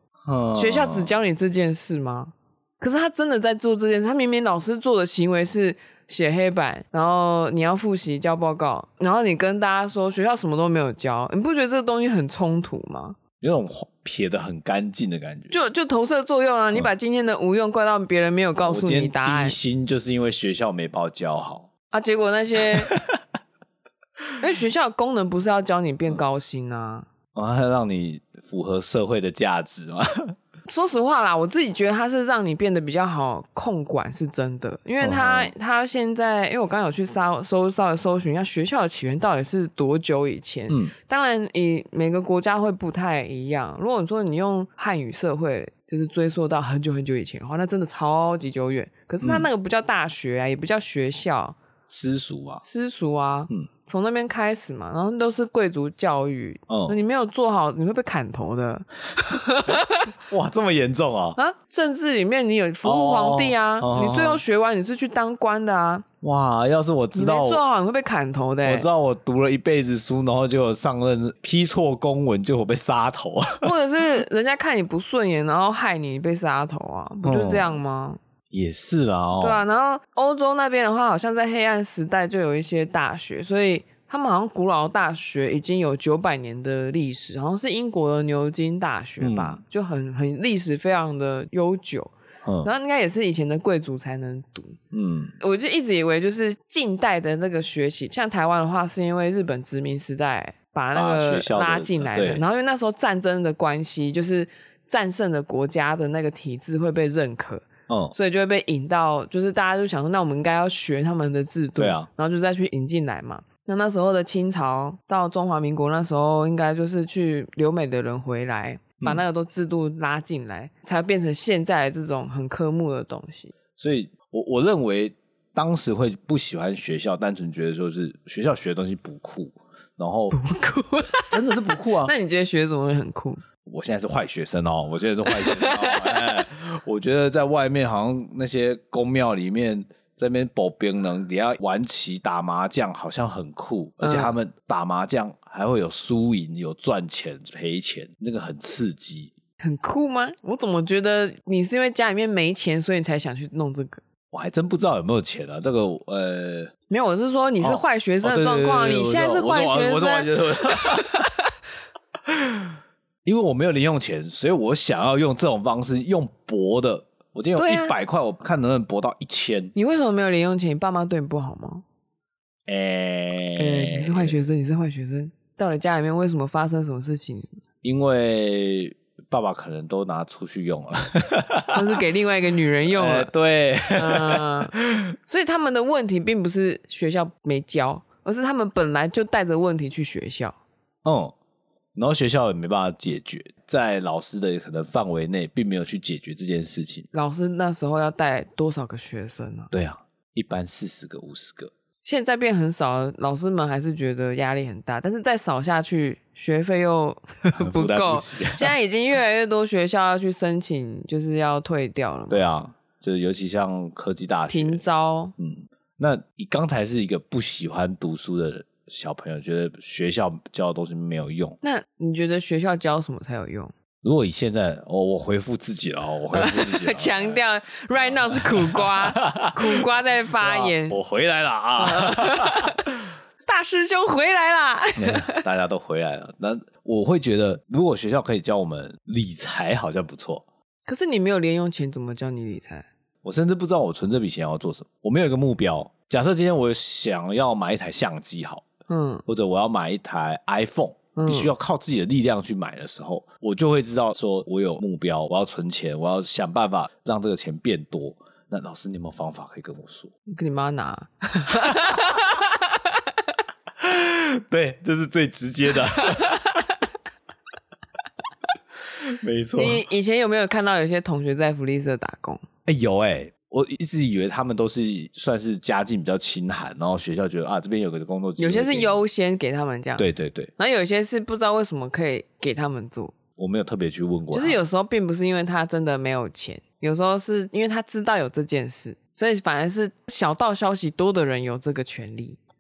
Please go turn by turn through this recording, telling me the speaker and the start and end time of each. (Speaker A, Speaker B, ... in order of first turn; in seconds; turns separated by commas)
Speaker A: 0.2-1.1, Speaker B: 0.5-13.2, Speaker A: 13.4-15.6, Speaker B: 15.5-19.6, Speaker A: 18.6-21.7, Speaker B: 21.9-22.9, Speaker A: 22.8-23.2, Speaker B: 24.4-27.1, Speaker A: 27.3-30.3, Speaker B: 30.7-51.6, Speaker A: 35.0-35.5, Speaker A: 49.2-49.5, Speaker A: 51.9-52.6, Speaker B: 52.6-60.1, Speaker A: 56.7-57.0, Speaker A: 60.3-61.4, Speaker B: 61.4-66.0, Speaker A: 62.8-64.4, Speaker A: 66.2-67.6, Speaker B: 67.1-68.9, Speaker A: 68.6-73.7, Speaker B: 73.6-78.2, Speaker A: 77.2-77.7, Speaker A: 78.5-79.6, Speaker B: 79.4-94.8, Speaker A: 89.2-89.6, Speaker A: 92.4-92.7, Speaker A: 94.9-95.3, Speaker B: 95.4-123.5, Speaker A: 100.9-102.4, Speaker A: 107.9-108.1, Speaker A: 111.8-112.1, Speaker A: 123.8-130.4, Speaker B: 130.3-133.4, Speaker A: 131.3-132.1, Speaker A: 133.6-149.3, Speaker B: 135.3-136.4, Speaker B: 144.0-144.3, Speaker B: 149.6-154.0, Speaker A: 154.3-156.7, Speaker B: 156.9-161.5, Speaker A: 157.6-161.2, Speaker A: 162.2-169.7, Speaker B: 167.6-167.9, Speaker B: 169.8-171.8, Speaker A: 172.7-174.4, Speaker B: 173.6-177.6, Speaker A: 177.8-181.8, Speaker B: 181.7-183.3, Speaker A: 182.9-185.1, Speaker B: 183.9-184.7, Speaker B: 185.3-190.6, Speaker A: 191.0-191.3, Speaker A: 191.9-197.1, Speaker B: 197.1-199.7, Speaker A: 199.7-201.7, Speaker B: 202.0-212.4, Speaker A: 207.5-208.7, Speaker A: 212.3-214.8, Speaker B: 214.5-215.3, Speaker A: 215.4-221.6, Speaker B: 221.6-223.7, Speaker A: 224.0-227.4, Speaker B: 226.3-231.0, Speaker A: 227.9-232.9, Speaker B: 231.8-232.8, Speaker B: 233.4-235.4, Speaker A: 235.0-240.4, Speaker B: 240.9-242.9, Speaker A: 243.2-248.7, Speaker B: 248.9-249.2, Speaker A: 249.2-260.1, Speaker B: 251.2-251.5, Speaker B: 260.3-263.0, Speaker A: 261.6-262.1, Speaker A: 263.8-266.6, Speaker B: 265.9-266.8, Speaker A: 269.0-269.8, Speaker B: 269.6-272.4, Speaker A: 272.6-278.9, Speaker B: 278.4-283.1, Speaker A: 280.0-280.5, Speaker A: 283.4-284.6, Speaker B: 284.3-292.4